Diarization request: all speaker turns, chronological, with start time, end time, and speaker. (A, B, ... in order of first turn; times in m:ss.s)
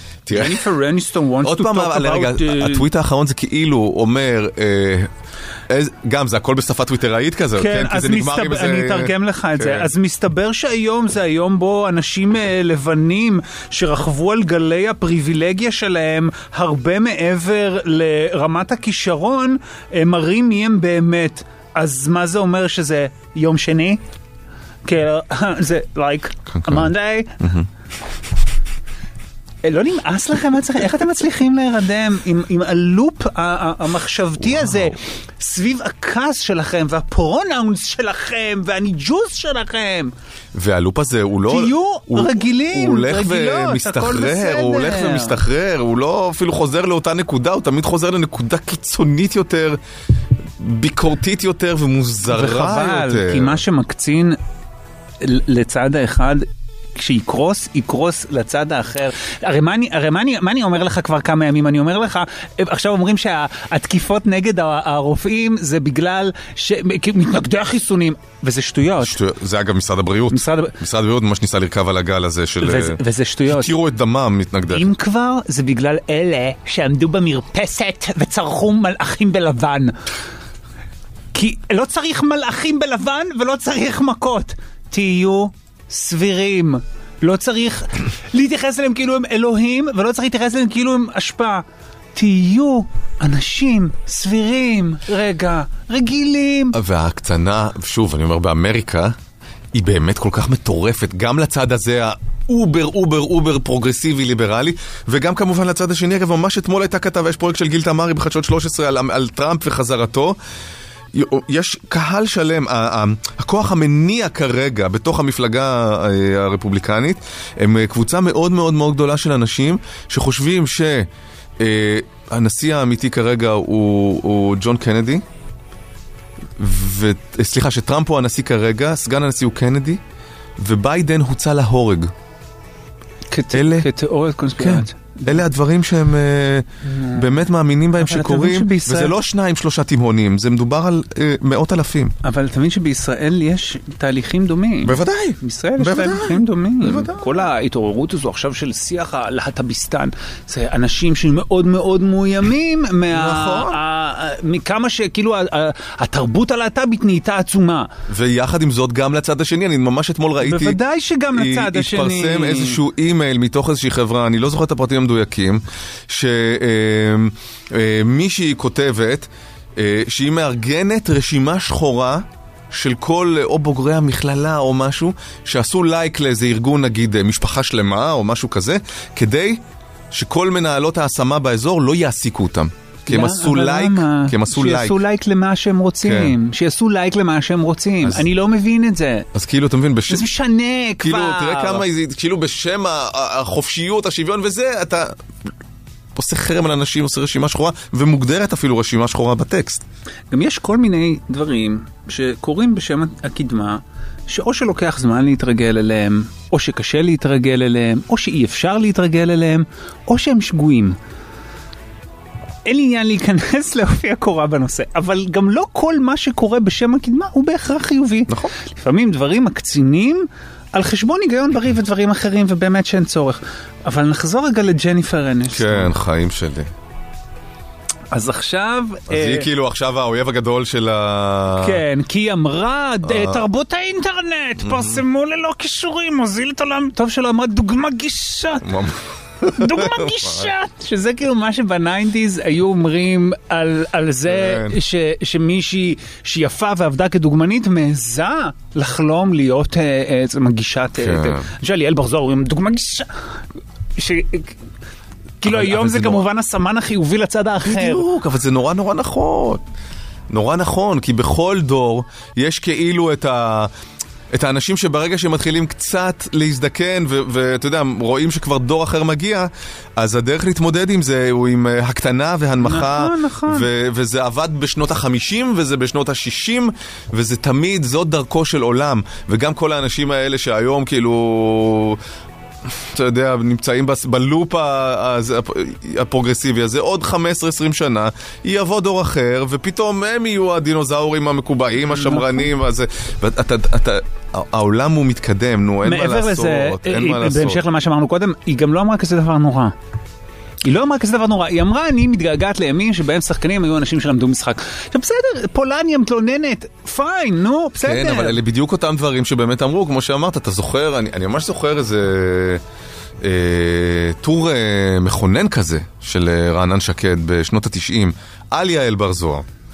0:00.3-0:00.6 A
0:00.3-0:02.9 B
0:01.4-0:05.1 A
0:05.7-0:09.9 A
0:07.6-0:24.0 B
0:24.9-0:27.4 B
0:26.5-0:27.7 A
0:29.6-0:40.1 B
0:34.4-0:35.0 A
0:40.5-0:49.8 A
0:41.5-0:45.4 B
0:50.6-0:53.6 A
0:52.3-0:54.4 B
0:55.2-1:09.2 B
1:09.0-1:14.9 A
1:10.3-1:10.8 B
1:12.6-1:13.7 B
1:14.7-1:20.0 B
1:21.3-1:36.8 B
1:36.7-1:39.2 A
1:39.7-1:50.4 A
1:51.1-2:01.1 A
2:01.6-2:05.2 A
2:06.6-2:10.0 A
2:10.6-2:12.1 A
2:13.3-2:15.4 B
2:13.5-2:13.9 A
2:14.6-2:22.1 A
2:16.8-2:17.4 B
2:18.0-2:19.2 B
2:22.2-2:37.9 B
2:24.8-2:27.4 A
2:33.1-2:33.8 A
2:38.1-2:40.8 A
2:40.4-2:42.8 B
2:41.3-3:05.0 A
3:03.1-3:09.3 B
3:06.0-3:06.4 A
3:09.3-3:10.3 A
3:10.1-3:11.9 B
3:11.0-3:15.2 A
3:16.2-3:19.8 A
3:20.3-3:31.0 B
3:32.6-3:45.9 B
3:38.3-3:38.5 A
3:45.5-3:46.7 A
3:48.1-3:49.5 B
3:49.1-3:51.8 A
3:51.6-3:58.7 B
3:53.0-3:53.4 A
3:54.6-3:55.0 A
3:58.6-4:00.5 A
3:59.5-4:13.1 B
4:04.3-4:04.8 A
4:11.0-4:11.5 A
4:14.0-4:14.6 B
4:15.4-4:18.0 B
4:15.4-4:16.2 A
4:17.6-4:19.6 A
4:20.3-4:23.7 A
4:24.3-4:42.0 A
4:32.6-4:33.7 B
4:42.7-4:57.6 A
4:51.8-4:52.5 B
4:55.8-4:59.7 B
5:00.6-5:08.4 B
5:07.8-5:12.6 A
5:13.2-5:19.4 A